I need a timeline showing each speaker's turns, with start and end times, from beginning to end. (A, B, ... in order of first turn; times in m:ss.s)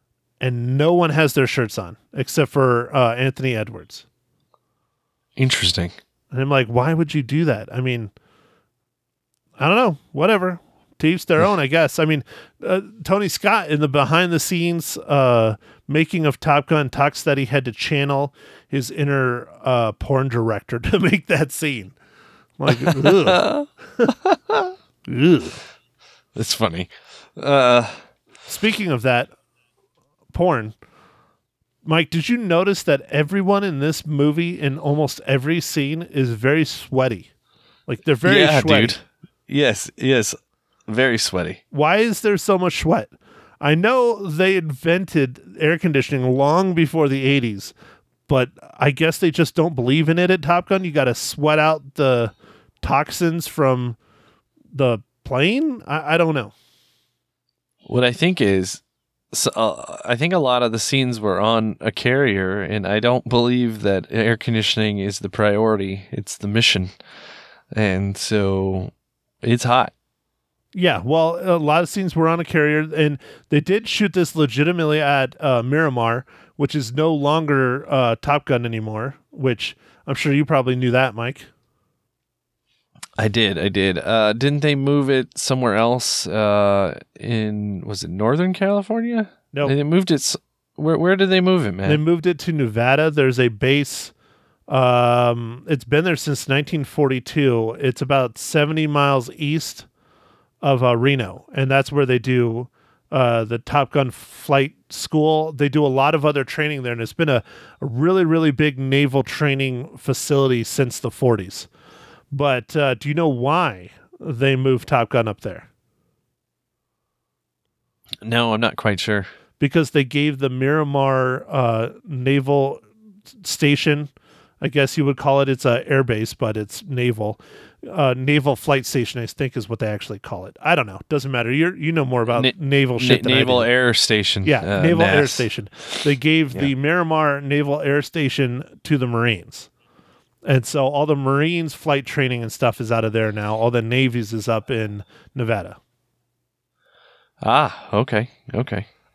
0:00.4-0:04.0 A
0:05.4-0:06.0 B
0:06.3-0:08.1 A
0:09.6-0:21.9 A
0:22.6-0:23.5 A
0:22.7-0:23.7 B
0:25.1-0:25.6 A
0:26.3-0:28.0 B
0:28.5-0:29.3 A
0:30.3-0:30.8 A
0:31.8-0:37.3 A
0:37.9-0:39.0 A
0:38.2-0:41.6 B
0:41.7-0:47.7 A
0:48.3-0:54.0 A
0:54.7-0:56.5 A
0:57.8-0:58.8 B
0:59.3-1:07.0 B
1:07.7-1:09.9 B
1:10.7-1:21.5 A
1:23.2-1:32.0 B
1:31.8-1:34.1 A
1:34.7-1:39.9 A
1:40.6-1:51.7 A
1:52.3-1:55.7 A
1:58.2-1:59.3 B
1:59.6-2:02.8 A
2:03.4-2:13.7 A
2:12.3-2:16.0 B
2:14.4-2:19.7 A
2:20.4-2:25.8 A
2:27.4-2:28.9 B